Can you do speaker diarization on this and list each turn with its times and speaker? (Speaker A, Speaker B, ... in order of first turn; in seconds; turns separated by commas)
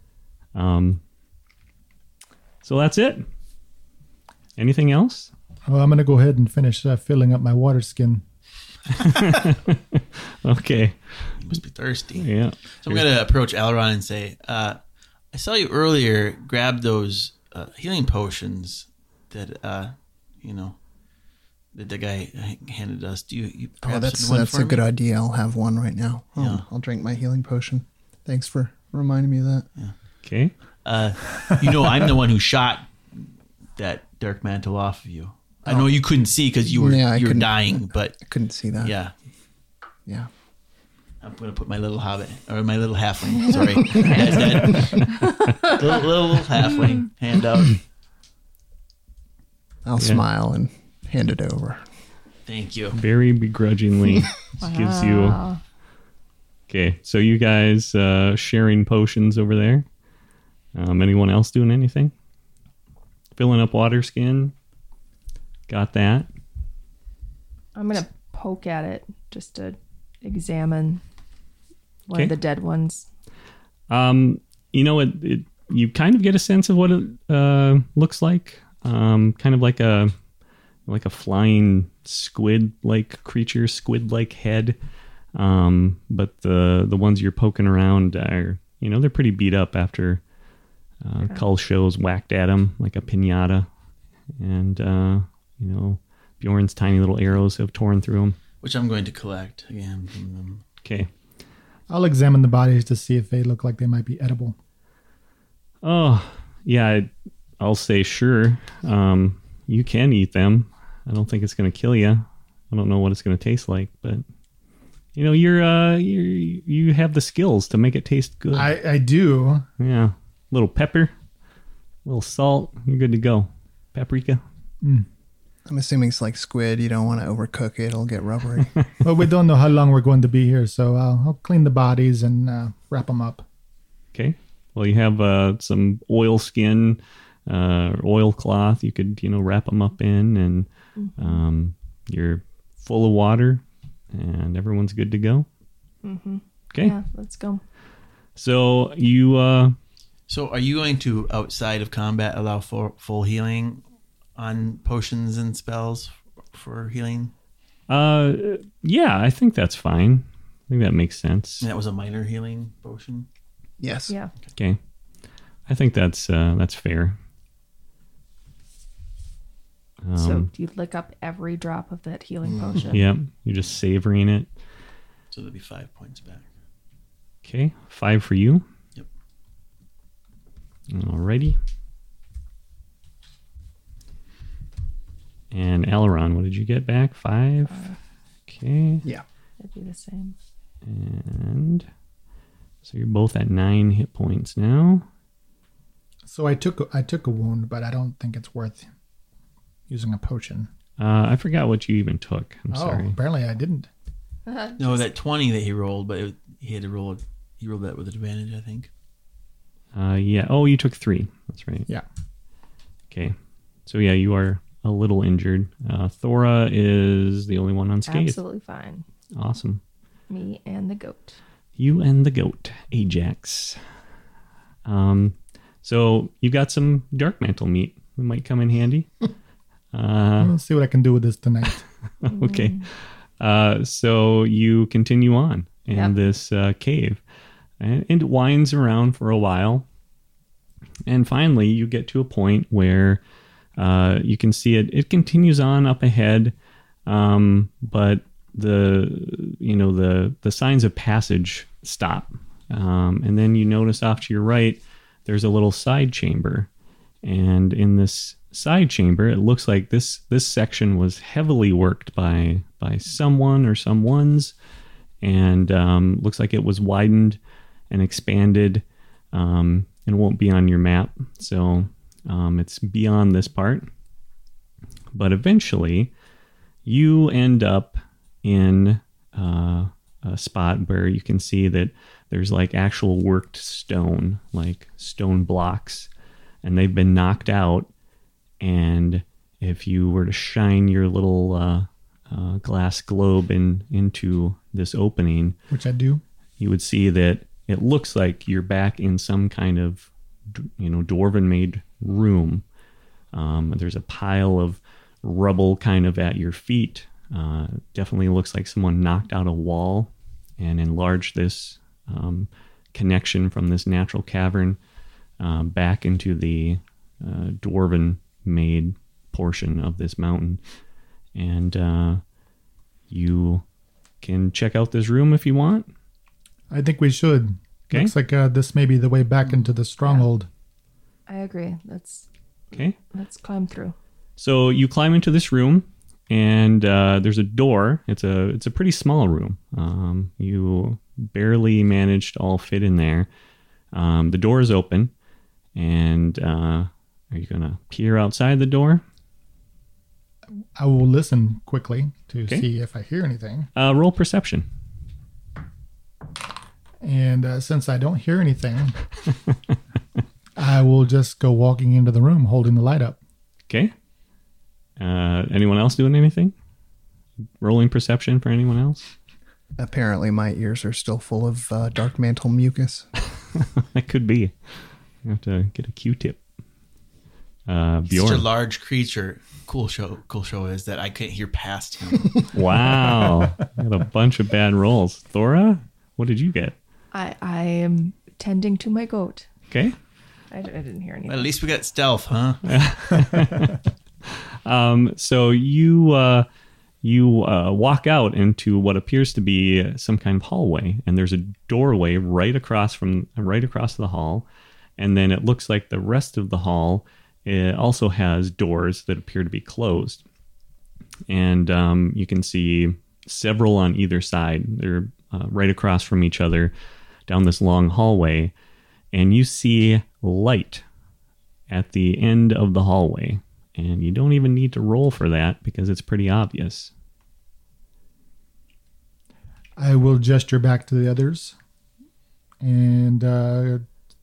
Speaker A: 0.5-1.0, Speaker A: 2.6-3.2, Speaker A: 4.6-5.3, Speaker B: 5.7-8.2, Speaker A: 8.9-11.4, Speaker C: 11.4-12.3, Speaker A: 12.2-13.0, Speaker C: 12.8-14.8, Speaker C: 15.3-20.8, Speaker C: 21.7-24.8, Speaker D: 23.8-29.7, Speaker C: 26.4-26.6, Speaker A: 30.2-30.5, Speaker C: 30.8-32.9, Speaker C: 33.8-38.1, Speaker D: 36.7-37.5, Speaker D: 38.2-38.9, Speaker C: 38.8-39.1, Speaker C: 41.2-47.8, Speaker E: 44.0-45.7, Speaker D: 49.9-51.8, Speaker A: 50.0-50.2, Speaker C: 52.5-53.0, Speaker A: 52.9-55.4, Speaker E: 54.6-55.6, Speaker A: 56.7-59.8, Speaker A: 60.7-62.1, Speaker A: 63.4-64.5, Speaker A: 65.7-66.3, Speaker E: 67.7-71.0, Speaker E: 72.1-73.1, Speaker A: 73.9-80.1, Speaker A: 80.9-84.8, Speaker A: 85.3-90.2, Speaker A: 91.0-93.7, Speaker A: 94.4-98.4, Speaker C: 98.6-100.6, Speaker A: 100.8-101.1, Speaker B: 101.9-104.5, Speaker A: 105.8-107.1, Speaker A: 107.6-114.2, Speaker A: 115.2-118.7, Speaker B: 118.5-119.7, Speaker A: 119.8-121.1, Speaker A: 122.0-124.4, Speaker D: 125.7-128.8, Speaker B: 129.0-133.4, Speaker A: 134.1-140.7, Speaker E: 141.0-141.4, Speaker A: 141.2-145.5, Speaker E: 146.0-147.6, Speaker A: 148.3-149.8, Speaker C: 150.3-153.8, Speaker C: 154.3-157.3, Speaker A: 157.9-161.7, Speaker C: 161.6-163.3, Speaker D: 163.8-164.1, Speaker A: 165.7-167.2, Speaker A: 170.0-170.5, Speaker E: 170.2-173.1, Speaker A: 172.9-174.5, Speaker C: 175.3-176.5, Speaker A: 177.4-178.6, Speaker A: 180.9-181.6, Speaker A: 185.5-187.9, Speaker E: 187.7-188.0, Speaker A: 188.5-189.0, Speaker E: 189.6-190.3, Speaker A: 190.8-191.8, Speaker A: 192.8-195.0, Speaker B: 196.3-198.8, Speaker B: 199.9-200.7, Speaker A: 201.0-203.1, Speaker B: 202.7-203.9, Speaker E: 204.5-205.1, Speaker C: 204.8-208.9, Speaker A: 209.9-211.9, Speaker A: 213.8-218.4, Speaker E: 218.1-219.0, Speaker A: 219.3-219.8, Speaker E: 220.3-221.4, Speaker A: 221.8-223.8, Speaker A: 224.8-229.1, Speaker A: 229.9-230.5, Speaker B: 230.4-231.8, Speaker A: 232.2-232.8, Speaker E: 232.3-232.8, Speaker A: 233.4-237.2, Speaker A: 237.8-239.8, Speaker A: 241.1-243.2, Speaker A: 243.8-246.5, Speaker A: 247.1-256.7, Speaker A: 257.2-264.5, Speaker A: 265.2-267.4, Speaker A: 267.9-273.9, Speaker A: 275.1-276.1, Speaker A: 276.9-286.1, Speaker A: 286.6-287.9, Speaker A: 288.6-295.6, Speaker B: 295.7-296.2, Speaker A: 296.6-302.6, Speaker A: 303.3-314.8, Speaker A: 315.4-320.6, Speaker A: 321.3-322.2, Speaker A: 323.1-323.6, Speaker A: 324.2-325.9, Speaker B: 326.7-330.5, Speaker E: 331.3-333.9, Speaker A: 334.4-343.3, Speaker A: 343.9-345.1, Speaker A: 345.7-349.0, Speaker B: 350.7-353.7, Speaker A: 353.8-354.6, Speaker B: 357.0-359.0, Speaker B: 360.6-363.2, Speaker A: 365.0-366.5, Speaker A: 367.6-369.0, Speaker D: 369.8-373.1, Speaker A: 373.5-376.4, Speaker A: 377.7-378.4, Speaker C: 378.1-382.5, Speaker A: 382.5-386.8, Speaker E: 387.1-389.5, Speaker A: 389.7-389.9, Speaker E: 390.5-391.5, Speaker C: 391.2-392.7, Speaker A: 392.6-396.5, Speaker A: 397.0-404.4, Speaker A: 405.0-410.2, Speaker A: 411.3-416.7, Speaker A: 417.3-418.5, Speaker A: 419.1-420.8, Speaker A: 421.7-426.9, Speaker B: 429.8-431.6, Speaker B: 432.6-433.8